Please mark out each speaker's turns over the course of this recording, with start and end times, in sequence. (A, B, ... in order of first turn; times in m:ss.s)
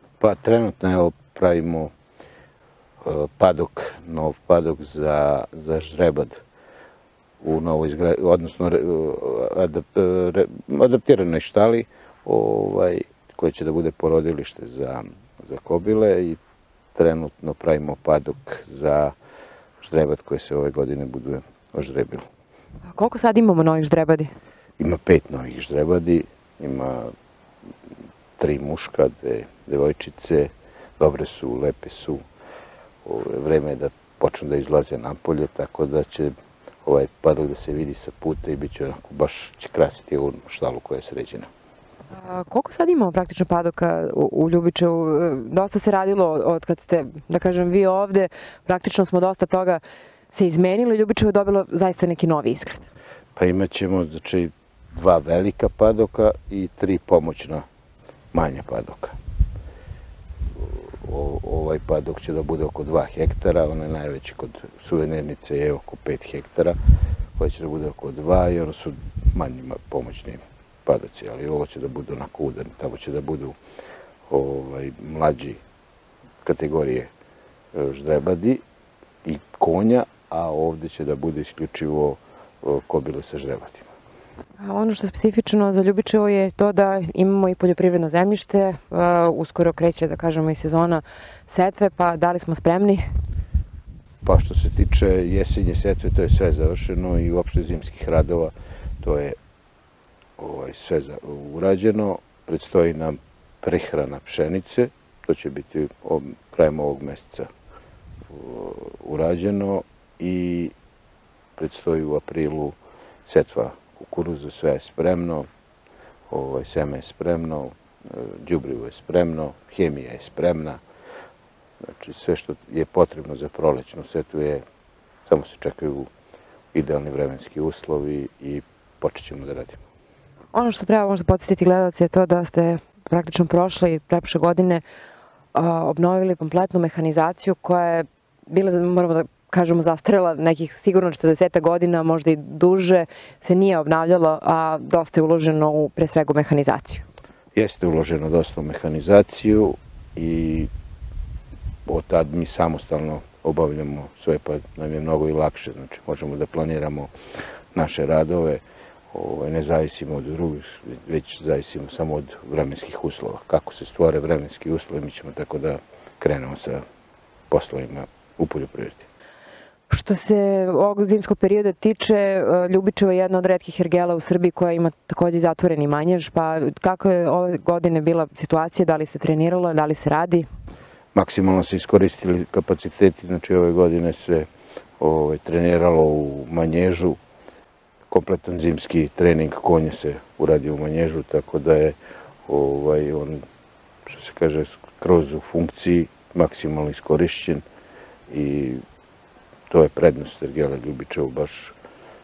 0:00.2-0:01.9 A
0:03.0-0:06.4 A
0:07.4-0:16.4 A
0:16.9-0:19.1 A
0:19.8-0:22.2 A
0:22.9-0:24.3 B
0:24.8-0:27.1 A
0:28.4-0:32.2 A
0:33.0-0:36.3 A
0:36.8-0:41.5 A
0:42.1-0:49.8 B
0:50.3-0:52.9 B
0:53.4-0:57.6 A
0:58.3-0:59.1 A
1:00.5-1:06.8 A
1:07.4-1:13.5 A
1:14.3-1:15.6 A
1:16.4-1:17.1 A
1:17.7-1:18.6 A
1:19.2-1:23.9 A
1:24.6-1:33.0 B
1:34.2-1:39.4 A
1:40.4-1:47.5 A
1:48.3-1:50.7 A
1:51.6-1:52.7 A
1:53.2-1:55.4 A
1:56.3-2:00.8 A
2:01.8-2:04.6 A
2:05.3-2:06.1 A
2:06.7-2:09.8 A
2:10.5-2:14.8 B
2:15.5-2:27.0 B
2:27.6-2:30.7 A
2:31.9-2:37.1 A
2:37.7-2:46.8 A
2:47.5-2:49.1 A
2:49.9-3:00.5 B
3:01.1-3:04.5 A
3:05.0-3:07.2 A
3:08.1-3:12.0 A
3:12.5-3:13.4 A
3:14.0-3:17.6 A
3:18.3-3:18.8 A
3:19.7-3:21.7 A